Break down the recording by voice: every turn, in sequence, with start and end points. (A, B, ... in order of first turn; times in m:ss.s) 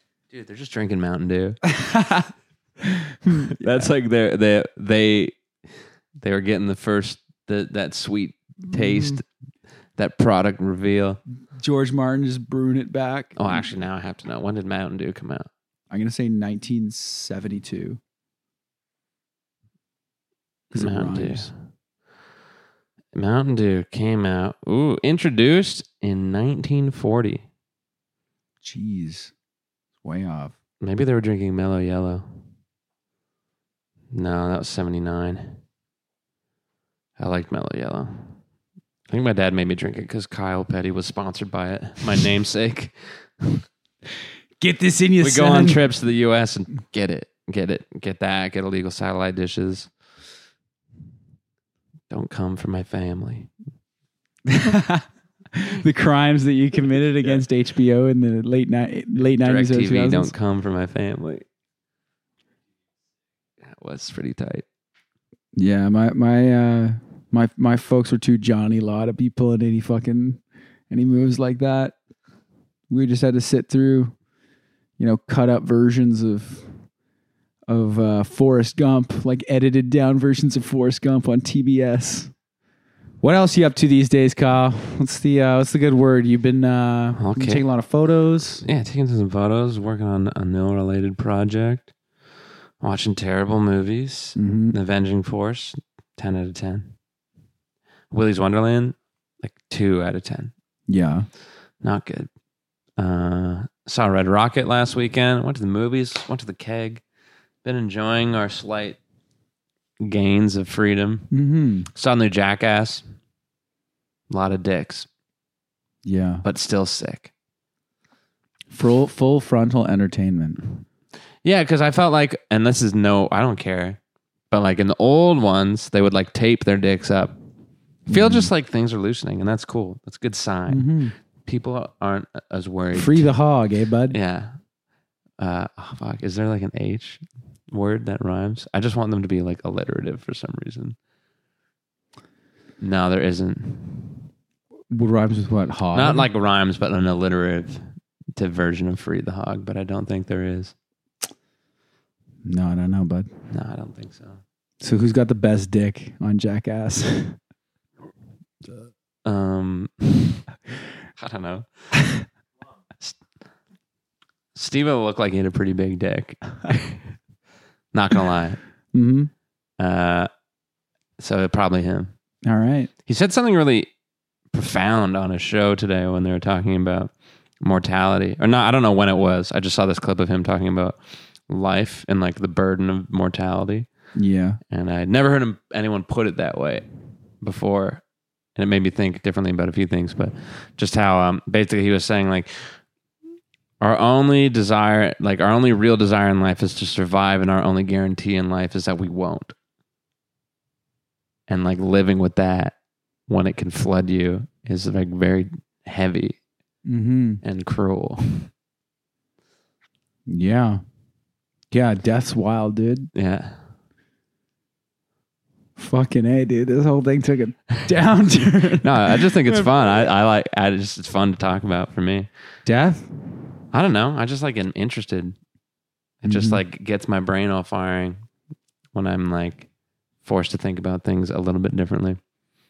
0:00.3-0:01.6 A
0:01.6-0:02.3 B
0:02.8-0:03.9 B
0:03.5-0:05.4 A
0:06.2-0:09.2 A
0:08.7-0:09.2 B
0:10.0-0:11.2 A
0:11.6-0:13.4 B
0:13.4-0:15.5 A
0:15.9-0:18.0 B
0:20.7-0:21.5 B
0:20.7-0:21.5 A
0:23.1-0:27.4 A
0:28.6-0:29.3 B
0:30.0-0:30.5 B
0:30.8-0:32.3 A
0:34.1-0:35.6 A
0:37.2-0:38.3 A
0:39.1-0:43.6 A
0:44.6-0:45.8 B
0:45.2-0:49.9 A
0:52.1-0:53.5 A
0:54.4-1:00.3 B
0:59.4-1:01.4 A
1:03.6-1:04.6 A
1:05.6-1:11.9 B
1:12.9-1:14.1 B
1:15.0-1:16.7 B
1:17.7-1:22.3 B
1:23.2-1:28.6 B
1:27.2-1:27.6 A
1:28.6-1:31.9 A
1:32.8-1:36.9 A
1:34.4-1:34.8 B
1:38.1-1:40.5 A
1:40.9-1:41.3 B
1:41.8-1:42.3 A
1:43.0-1:47.0 A
1:47.6-1:49.0 A
1:50.0-1:51.3 A
1:51.3-1:51.9 B
1:51.9-1:53.0 A
1:54.3-1:55.1 A
1:56.0-1:56.4 B
1:56.4-1:57.3 A
1:58.7-2:00.8 B
2:01.4-2:04.0 A
2:04.5-2:07.3 A
2:08.1-2:13.3 A
2:08.1-2:08.5 B
2:10.7-2:11.1 B
2:12.9-2:14.2 B
2:14.1-2:14.5 A
2:15.4-2:21.0 A
2:22.8-2:24.2 A
2:24.9-2:26.3 B
2:25.9-2:27.8 A
2:28.4-2:30.7 A
2:32.4-2:33.3 B
2:33.5-2:34.4 A
2:34.8-2:37.4 B
2:39.2-2:40.4 A
2:41.2-2:41.7 A
2:44.5-2:47.0 A
2:47.9-2:48.6 A
2:48.9-2:49.3 B
2:49.8-2:50.3 A
2:51.2-2:52.1 A
2:52.4-2:52.9 B
2:53.0-2:53.9 A
2:54.5-3:03.9 A
3:04.2-3:04.6 B
3:04.7-3:06.8 A
3:07.4-3:08.0 A
3:08.6-3:12.8 A
3:13.8-3:19.6 A
3:21.5-3:22.7 A
3:23.3-3:26.4 A
3:26.8-3:27.4 B
3:27.4-3:28.5 A
3:30.3-3:30.8 B
3:31.7-3:33.1 B
3:33.1-3:33.6 A
3:35.8-3:39.8 B
3:38.8-3:42.3 A
3:42.6-3:43.1 B
3:43.7-3:45.4 A
3:46.2-3:48.2 A
3:46.3-3:46.6 B
3:48.9-3:49.7 A
3:50.2-3:52.2 A